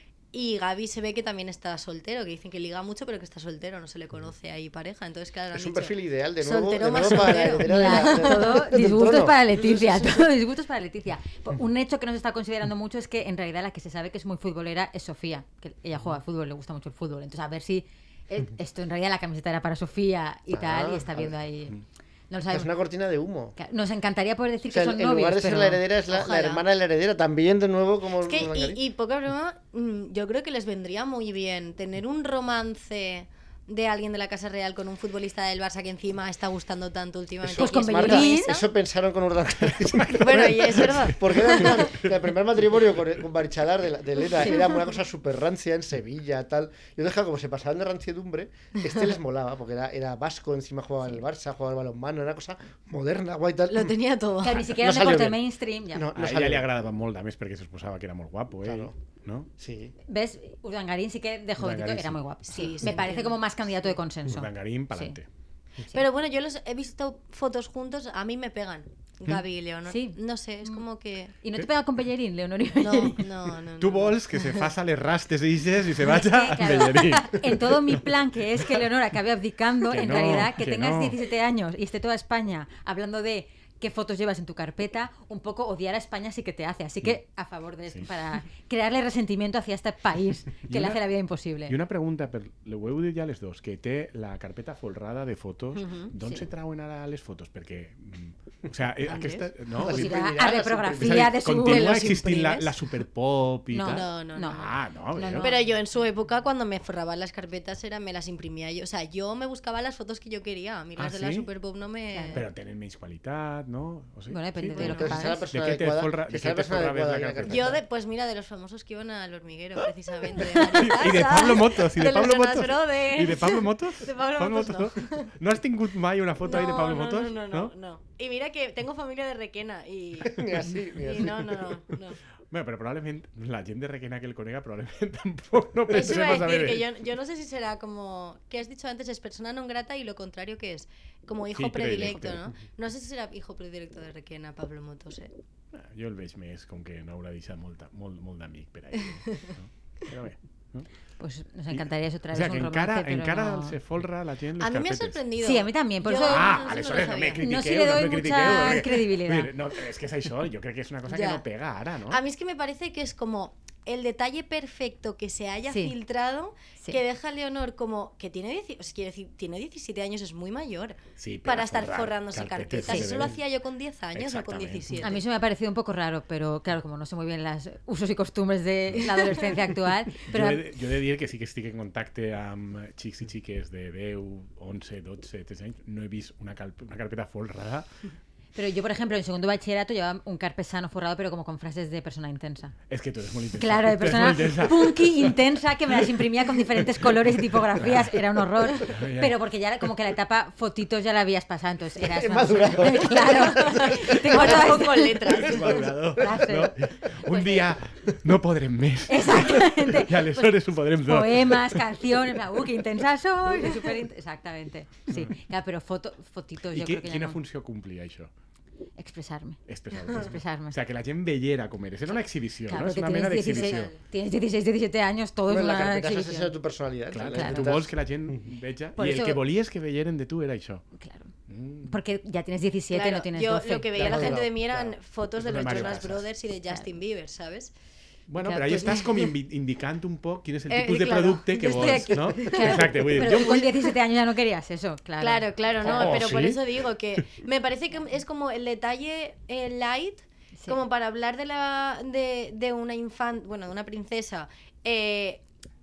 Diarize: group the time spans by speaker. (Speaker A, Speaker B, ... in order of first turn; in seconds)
Speaker A: 0.3-8.7, 26.1-26.6, 28.2-38.7, 40.2-42.0, 44.4-44.9, 53.7-54.6, 62.5-63.4, 65.9-71.3, 72.8-74.7, 95.7-96.1, 99.0-99.5, 103.9-104.8, 105.3-112.5, 114.7-115.2, 117.5-125.3, 126.4-132.2, 135.9-145.3, 154.6-157.4, 161.1-161.4, 162.1-175.2, 203.5-205.8, 223.4-224.0, 232.9-237.7, 238.6-239.3, 240.7-243.9, 245.2-255.4
Speaker B: 5.5-9.4, 20.5-21.3, 22.5-23.6, 24.6-28.8, 37.4-54.0, 54.7-56.7, 58.6-58.9, 59.6-59.9, 99.7-101.3, 114.8-117.8, 130.2-131.7, 202.0-204.6, 205.5-206.4, 225.5-227.9, 233.9-235.0, 235.5-236.1
Speaker C: 7.6-21.8, 22.3-22.7, 23.6-25.8, 37.5-38.6, 54.4-56.1, 60.1-65.2, 69.8-70.8, 71.4-73.3, 76.0-91.8, 99.8-102.7, 103.7-105.6, 112.1-112.4, 114.3-115.5, 151.2-153.8, 155.4-156.5, 157.4-159.5, 165.7-165.9, 175.0-180.6, 188.5-192.7, 193.6-207.7, 209.1-217.4, 219.0-220.8, 222.7-226.5, 227.3-227.7, 229.0-229.4, 230.9-231.3, 231.8-234.3, 238.4-239.2, 241.6-246.3
Speaker D: 39.7-42.1, 56.1-59.5, 61.6-62.7, 64.2-65.2, 73.8-78.0, 79.9-81.2, 90.7-91.0, 91.7-100.3, 101.0-105.5, 111.0-111.5, 112.3-117.8, 120.5-127.7, 132.5-136.8, 141.5-142.5, 145.7-150.9, 151.7-155.2, 156.2-162.2, 171.2-173.4, 174.1-175.1, 180.2-187.9, 192.9-195.4, 197.7-198.1, 198.7-199.3, 205.3-212.0, 216.7-218.3, 219.7-223.9, 227.1-230.8, 231.5-231.9, 234.0-234.3, 235.4-236.2, 238.3-243.7, 245.8-247.2